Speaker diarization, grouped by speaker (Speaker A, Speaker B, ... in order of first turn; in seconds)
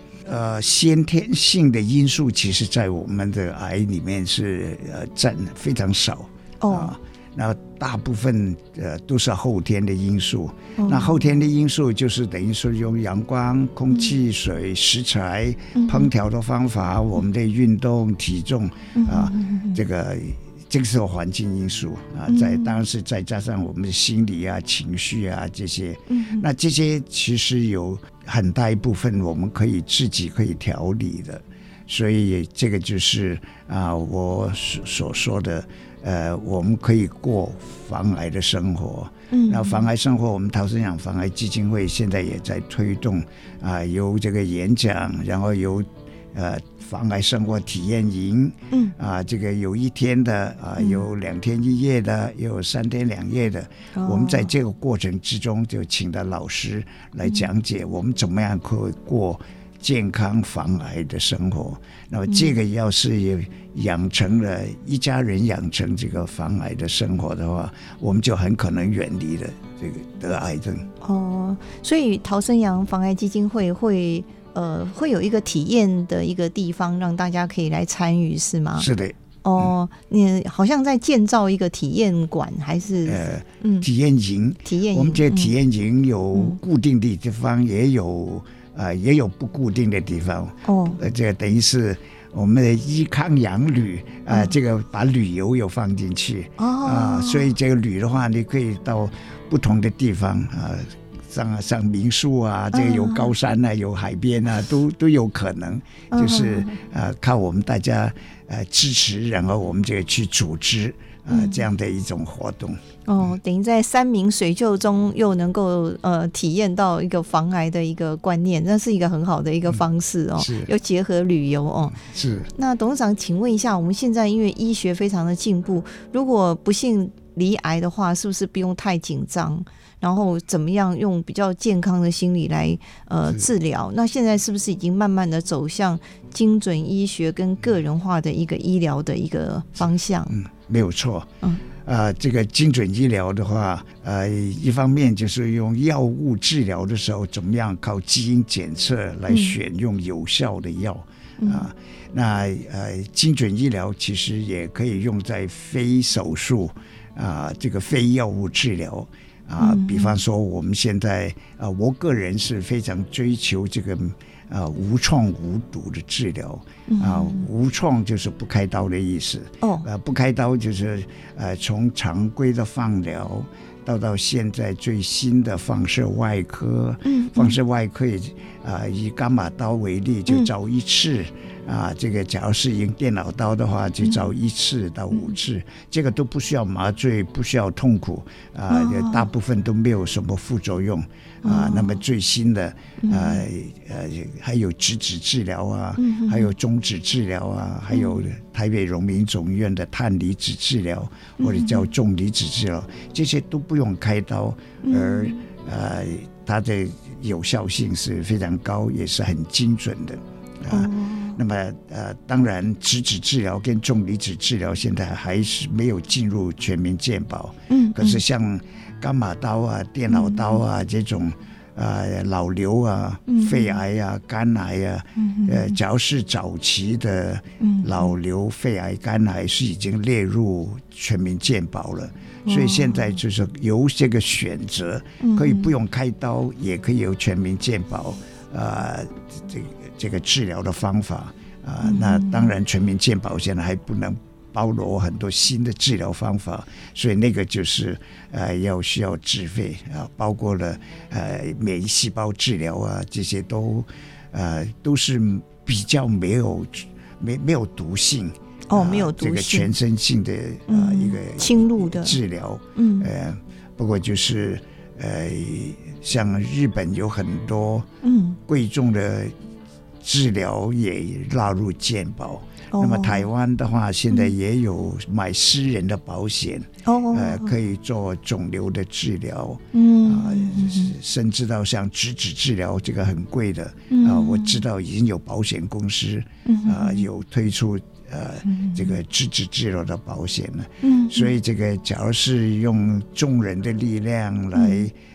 Speaker A: 0.2-70.9, 78.8-79.7, 83.0-112.8, 120.4-120.7, 121.9-122.5, 140.3-267.9, 268.5-269.4, 270.0-294.9
Speaker B: 6.6-7.0, 10.8-11.2, 15.7-16.1, 18.9-19.8, 22.3-22.8, 26.1-26.4, 39.3-39.9, 54.0-54.5, 62.3-62.5, 71.0-78.9, 79.4-83.9, 84.7-85.5, 90.7-91.0, 96.6-97.5, 102.7-103.3, 106.1-106.8, 111.3-111.7, 113.1-122.0, 122.5-140.3, 149.3-149.6, 151.4-151.7, 159.6-160.2, 166.9-167.5, 169.6-169.9, 177.1-177.6, 188.7-189.3, 191.4-192.0, 193.0-193.4, 196.0-196.5, 201.4-201.9, 204.8-205.4, 210.7-211.4, 217.7-218.2, 220.1-220.6, 223.3-223.8, 225.2-225.8, 227.6-228.1, 232.5-233.0, 235.2-235.7, 241.8-242.5, 258.7-259.7, 260.7-262.2, 262.8-263.1, 268.0-268.4, 272.7-273.3, 276.9-277.5, 279.7-280.9, 283.9-284.6, 286.4-287.1, 288.4-288.9, 290.8-291.3, 294.5-294.9